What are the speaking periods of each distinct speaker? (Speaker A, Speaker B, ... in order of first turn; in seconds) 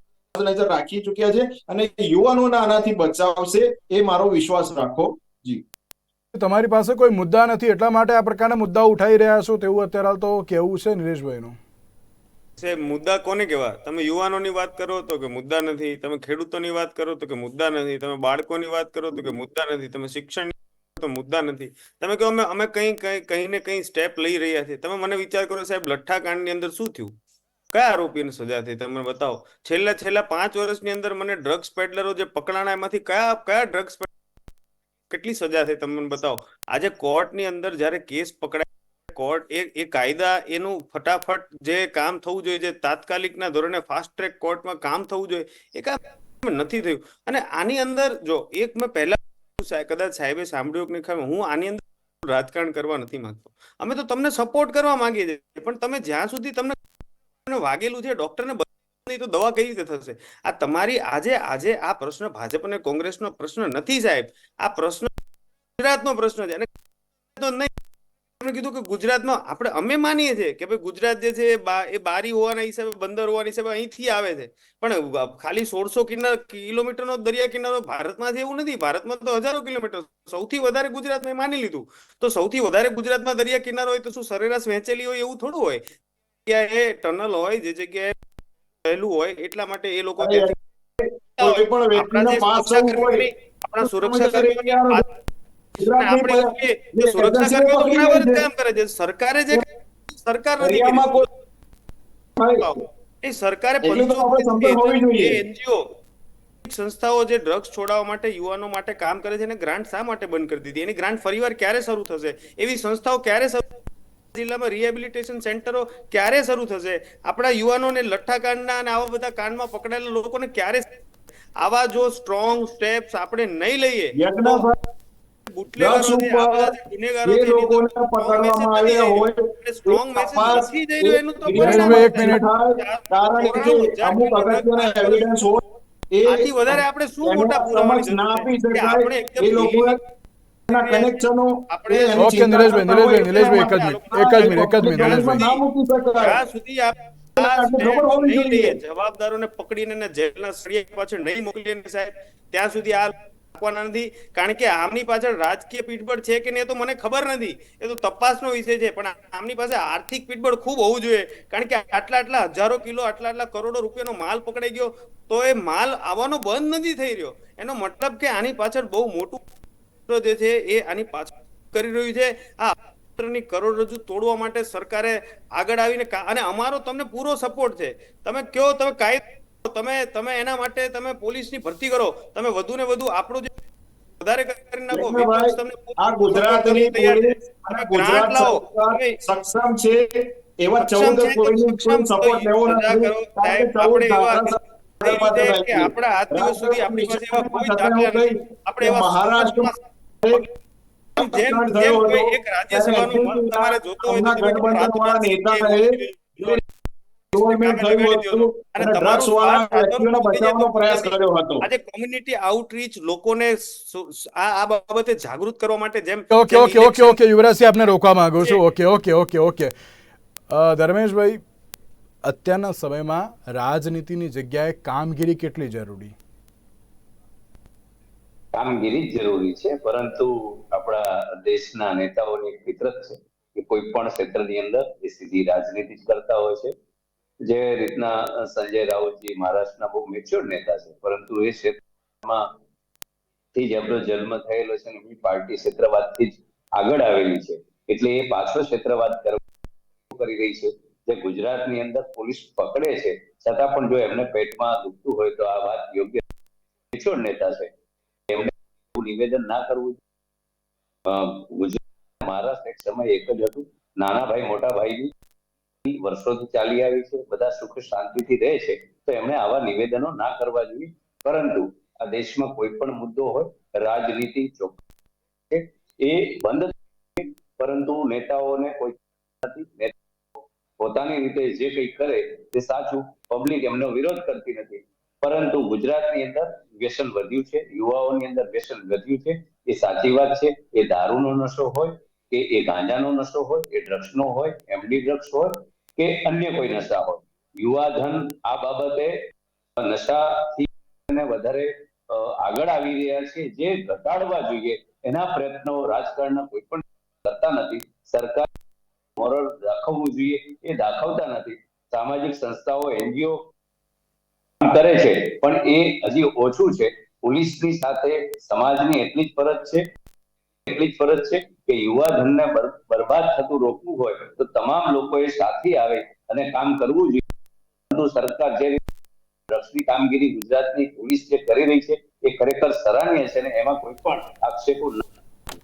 Speaker A: 0.3-5.6, 90.2-93.3, 93.8-95.0, 95.8-98.5, 100.6-101.2, 102.4-102.7, 103.8-105.4, 124.2-124.8, 125.8-126.7, 127.3-140.0, 140.7-146.4, 147.4-148.8, 184.9-199.7, 201.2-206.6, 207.3-211.7
Speaker B: 6.3-11.6, 131.5-132.4, 142.2-145.4, 216.3-219.7, 220.5-221.4, 222.2-226.1
Speaker C: 12.6-27.1, 27.7-34.1, 35.1-56.8, 57.5-65.1, 65.8-66.7, 67.4-67.7, 68.4-85.8, 86.5-88.2, 88.8-90.5, 91.4-95.0, 95.9-101.3, 102.6-105.9, 106.6-113.7, 114.3-120.9, 121.6-124.7, 125.5-135.3, 136.2-140.0, 140.7-145.6, 146.2-169.4, 170.1-183.5, 184.2-189.2, 190.8-199.8, 201.2-206.6, 207.3-217.2
Speaker D: 228.5-236.7, 237.5-242.5, 243.5-249.4, 250.1-256.2, 256.9-257.7, 258.3-260.0, 261.1-265.1, 265.8-274.8, 275.5-279.9, 280.8-299.2, 299.8-308.5, 309.2-313.5, 314.6-319.9, 320.7-327.2, 327.9-328.8, 329.5-335.0